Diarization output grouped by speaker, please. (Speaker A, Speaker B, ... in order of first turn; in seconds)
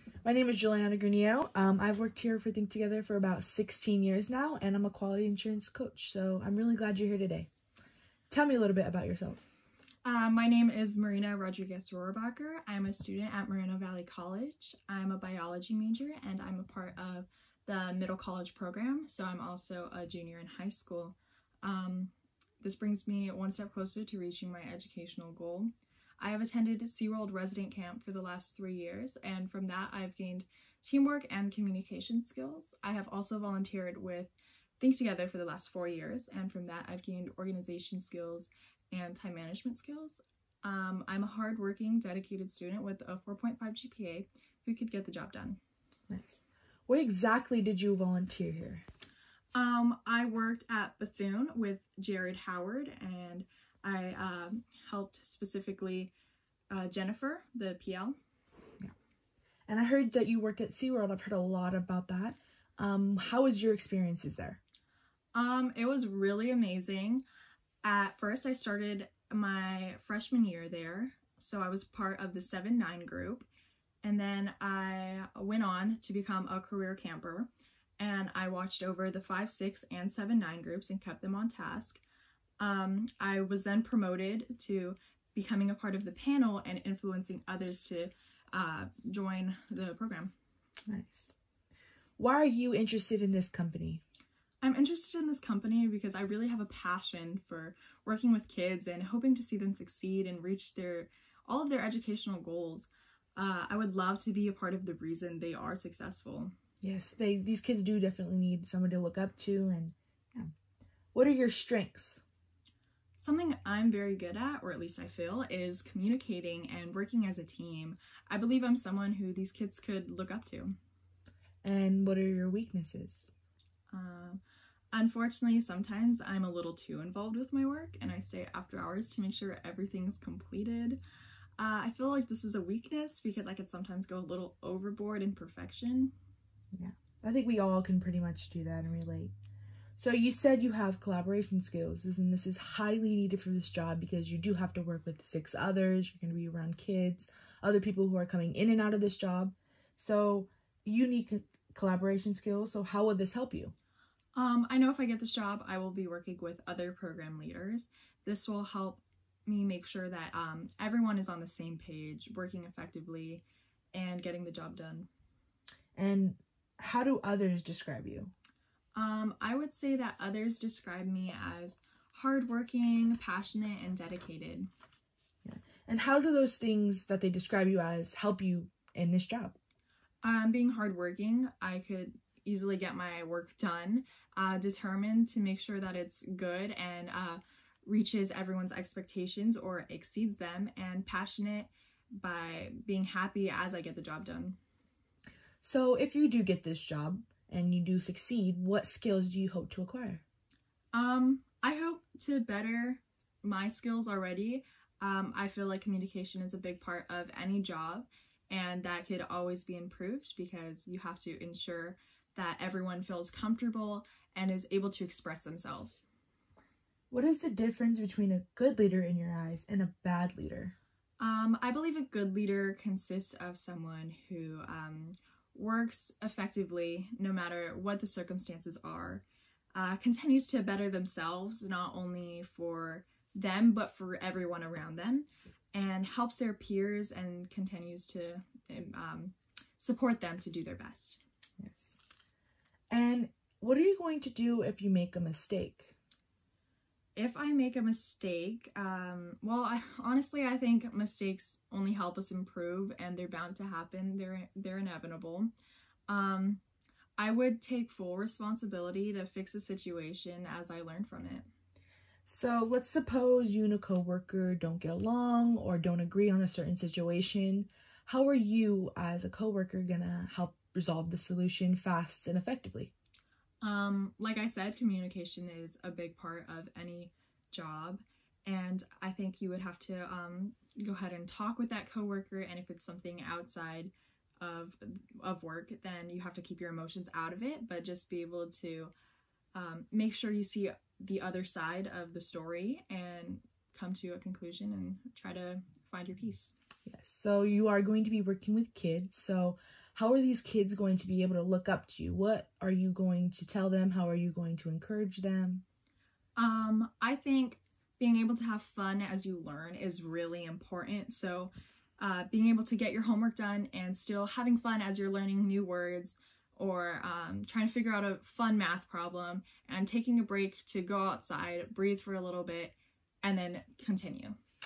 Speaker A: 0.2-7.5, 8.3-9.4, 46.1-48.8, 59.7-64.6, 90.9-91.3, 92.2-94.0, 106.8-110.5, 111.1-112.2, 121.6-123.3, 136.7-139.3, 140.0-153.7, 165.9-168.3, 175.4-179.6, 195.6-200.2, 217.1-220.8, 241.6-242.0, 242.9-245.9, 262.3-272.9, 296.9-305.6
Speaker B: 10.0-45.6, 49.5-56.1, 56.7-58.2, 65.3-67.2, 67.8-73.5, 74.0-82.0, 82.6-90.3, 94.6-106.5, 113.2-120.8, 123.9-124.4, 124.9-131.0, 131.6-136.1, 154.3-165.1, 168.9-174.7, 180.2-194.6, 200.9-216.1, 221.2-241.2, 247.2-255.5, 256.1-256.6, 257.2-261.5, 273.6-288.9, 289.5-296.5, 306.4-324.4